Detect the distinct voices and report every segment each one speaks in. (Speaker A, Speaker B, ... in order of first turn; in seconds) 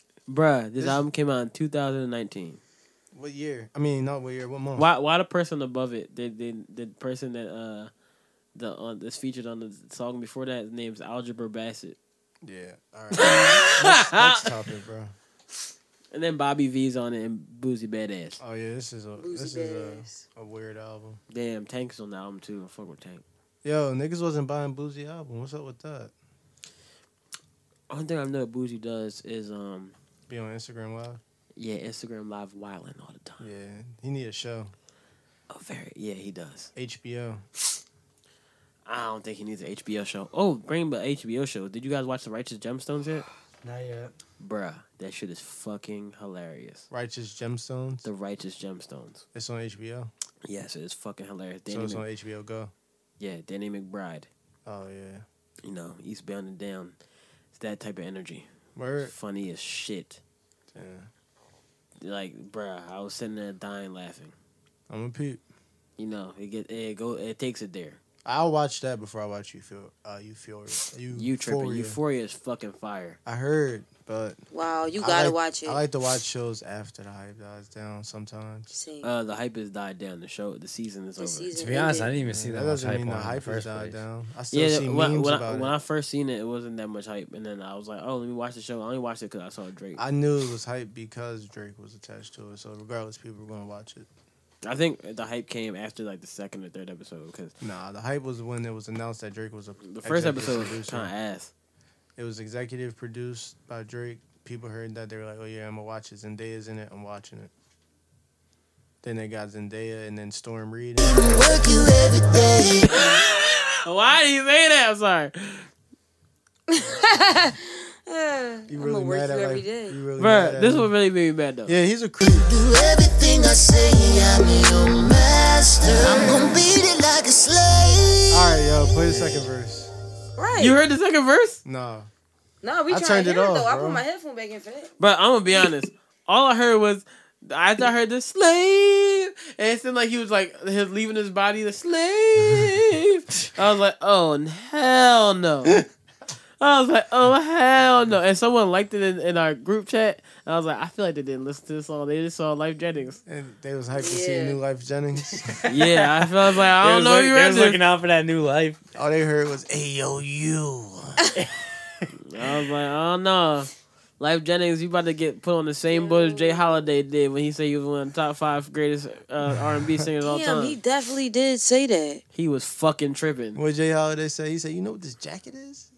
Speaker A: 0.3-2.6, 4.8-7.9, 8.6-12.0, 13.2-14.5, 16.1-18.4, 21.3-23.2, 27.9-29.9, 31.6-33.5, 35.5-36.7, 38.9-43.3, 44.4-46.9, 48.0-49.2, 50.5-52.0, 53.2-54.3, 55.6-57.0, 57.5-58.5, 59.0-60.2, 62.0-64.3, 66.0-68.0, 71.1-73.2, 79.0-81.5, 84.5-90.0, 94.6-97.5, 99.8-101.5, 113.8-115.7, 120.2-121.7, 130.6-131.6, 135.0-145.8, 146.6-153.2, 155.7-157.8, 162.3-170.8, 172.3-173.6
Speaker B: 0.8-1.0, 3.1-4.9, 12.4-15.1, 18.4-21.2, 23.6-26.1, 30.3-31.2, 33.4-34.7, 36.8-37.4, 46.9-48.1, 49.3-50.1, 51.7-52.7, 54.7-55.2, 58.8-59.1, 60.7-61.1, 64.9-65.4, 68.2-72.0, 73.2-74.4, 75.0-78.7, 82.3-85.7, 90.0-94.1, 97.6-101.1, 102.2-107.5, 109.0-111.2, 118.7-120.9, 121.7-122.5, 128.3-129.9, 131.7-132.1, 132.9-134.0, 153.3-155.7, 158.9-161.3, 173.6-175.9
Speaker C: 19.2-20.2, 74.5-75.8, 78.7-79.1, 81.2-82.2, 116.7-120.0, 130.4-130.8, 132.6-134.9, 154.0-154.6, 165.9-166.9, 170.2-172.2
Speaker D: 43.6-44.1, 81.5-84.0, 155.5-156.1, 156.8-158.8
Speaker E: 111.0-113.1, 122.2-128.5